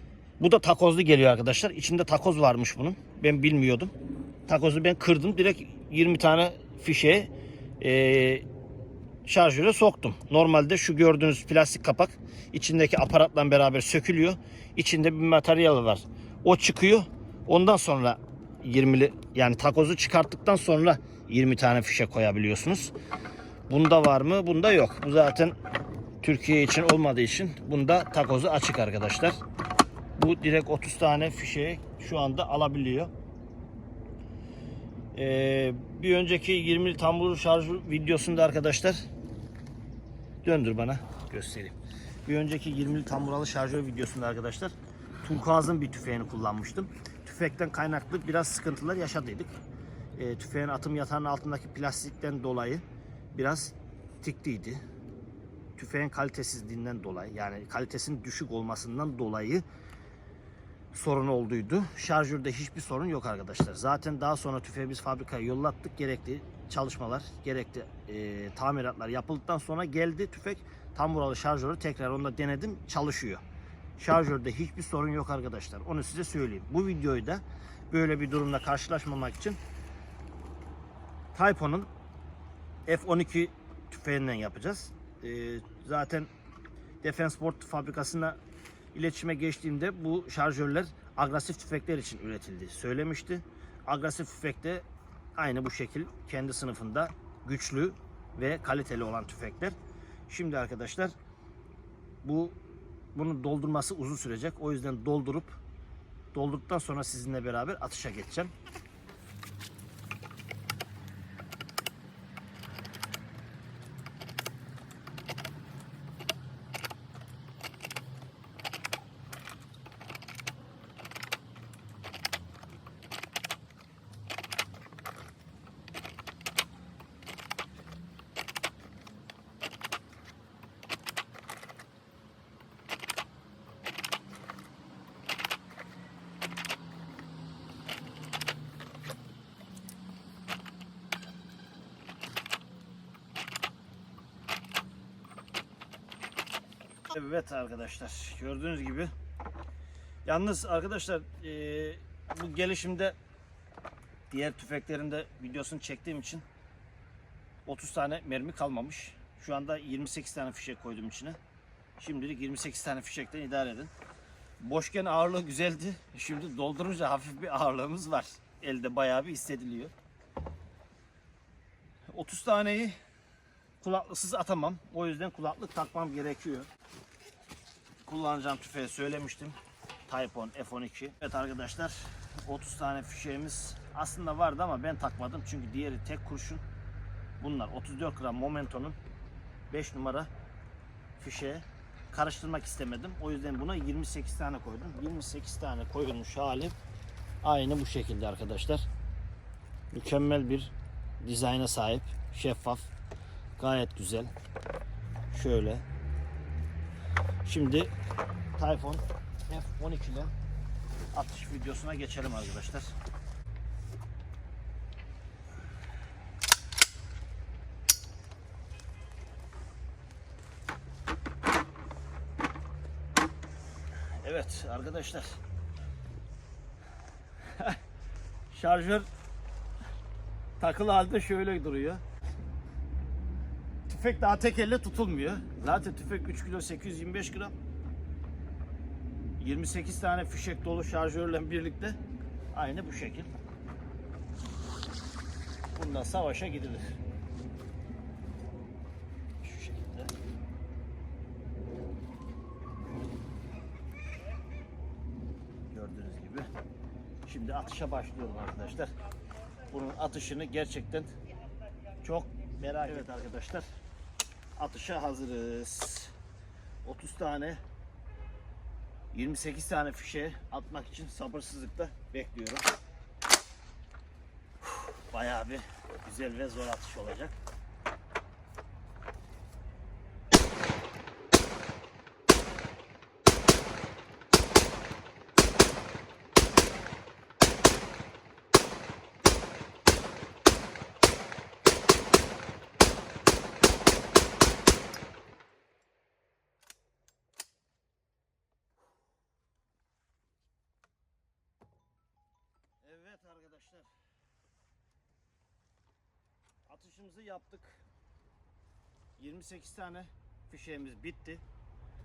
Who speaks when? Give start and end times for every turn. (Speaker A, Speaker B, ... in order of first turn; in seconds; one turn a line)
Speaker A: 0.4-3.9
Speaker A: 4.5-8.4
Speaker A: 9.2-22.9
Speaker A: 23.7-25.5
Speaker A: 26.2-29.4
Speaker A: 30.2-33.1
Speaker A: 35.1-39.0
Speaker A: 40.4-49.5
Speaker A: 50.1-54.8
Speaker A: 55.8-59.6
Speaker A: 60.9-73.4
Speaker A: 74.0-79.6
Speaker A: 81.3-81.9
Speaker A: 82.9-86.3
Speaker A: 87.0-88.4
Speaker A: 88.9-99.8
Speaker A: 100.3-101.1
Speaker A: 102.2-102.6
Speaker A: 103.1-105.6
Speaker A: 106.3-108.5
Speaker A: 147.1-149.1
Speaker A: 150.2-153.1
Speaker A: 154.3-156.4
Speaker A: 157.7-161.4
Speaker A: 162.0-163.9
Speaker A: 164.6-169.9
Speaker A: 172.1-173.0
Speaker A: 173.8-176.7
Speaker A: 178.0-179.6
Speaker A: 180.1-186.6
Speaker A: 187.4-189.0
Speaker A: 189.7-190.3
Speaker A: 191.2-196.7
Speaker A: 197.4-198.9
Speaker A: 199.9-202.9
Speaker A: 203.6-204.3
Speaker A: 205.3-205.8
Speaker A: 207.4-207.9
Speaker A: 208.6-210.3
Speaker A: 211.1-212.9
Speaker A: 224.2-225.4
Speaker A: 228.5-229.1
Speaker A: 230.6-232.0
Speaker A: 233.9-237.5
Speaker A: 239.4-242.0
Speaker A: 242.5-243.3
Speaker A: 245.7-246.8
Speaker A: 249.4-250.1
Speaker A: 255.7-256.5
Speaker A: 257.2-258.9
Speaker A: 259.7-261.1
Speaker A: 262.0-263.7
Speaker A: 264.6-266.1
Speaker A: 266.8-267.6
Speaker A: 269.1-272.6
Speaker A: 274.6-277.3
Speaker A: 302.8-303.9
Speaker A: 306.6-307.8
Speaker A: 309.2-311.4